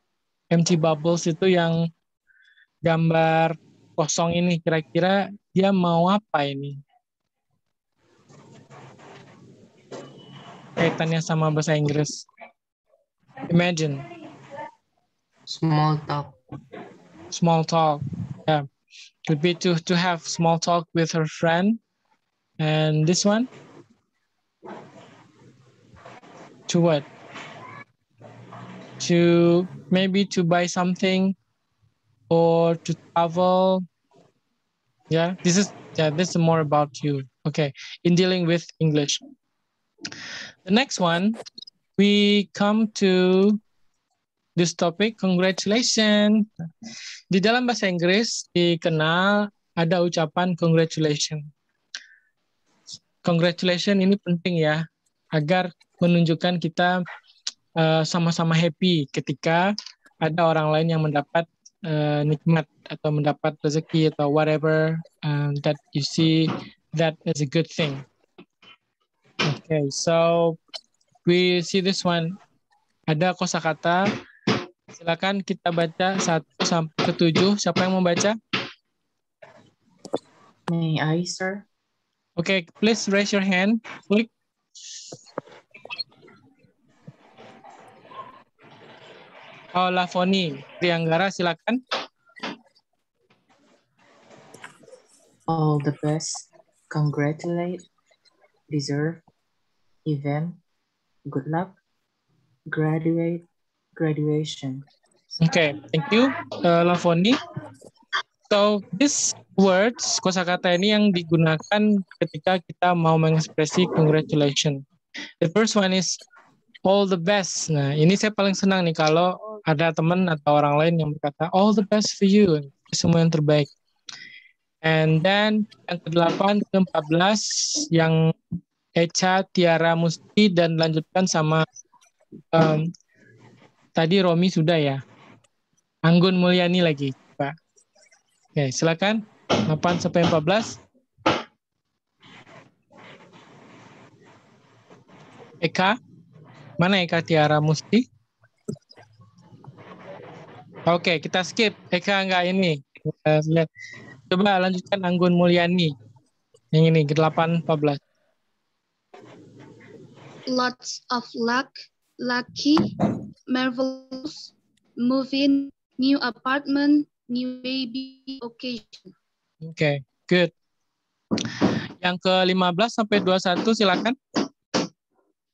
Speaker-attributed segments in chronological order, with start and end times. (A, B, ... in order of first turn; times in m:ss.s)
0:00.5-0:01.9 A
0:02.8-0:06.8 A
0:10.8-0:12.2 A
0:13.5-0:14.0 A
0:15.5-0:16.3 B
0:17.3-0:18.6 A
0:19.3-0:21.8 A
0:22.6-0:23.5 A
0:26.7-0:27.1 A
0:29.0-0:31.3 A
0:32.3-0:33.8 A
0:35.1-0:39.2 A
0:40.6-0:41.4 A
0:42.0-0:43.6 A
0:44.6-0:46.5 A
0:47.3-0:51.4 A
0:53.2-0:57.0 A
0:57.8-1:08.0 A
1:09.4-1:10.6 A
1:11.2-1:12.4 A
1:13.1-1:14.0 A
1:14.9-1:18.4 A
1:20.7-1:21.6 B
1:22.4-1:24.3 A
1:29.7-1:31.8 A
1:35.5-1:37.8 B
1:38.7-1:39.2 B
1:40.0-1:40.6 B
1:41.2-1:41.7 B
1:42.7-1:44.8 B
1:45.4-1:47.4 A
1:48.5-1:54.8 A
1:55.4-1:56.2 A
1:56.8-2:03.7 A
2:04.8-2:08.2 A
2:09.0-2:11.6 A
2:12.5-2:12.9 A
2:14.0-2:15.0 A
2:16.0-2:17.5 A
2:18.6-2:20.8 A
2:25.6-2:25.9 A
2:26.8-2:28.0 A
2:30.9-2:33.7 A
2:34.3-2:35.9 A
2:36.7-2:38.0 A
2:40.5-2:42.9 C
2:43.5-2:49.1 C
2:49.6-2:50.5 A
2:52.0-2:54.2 A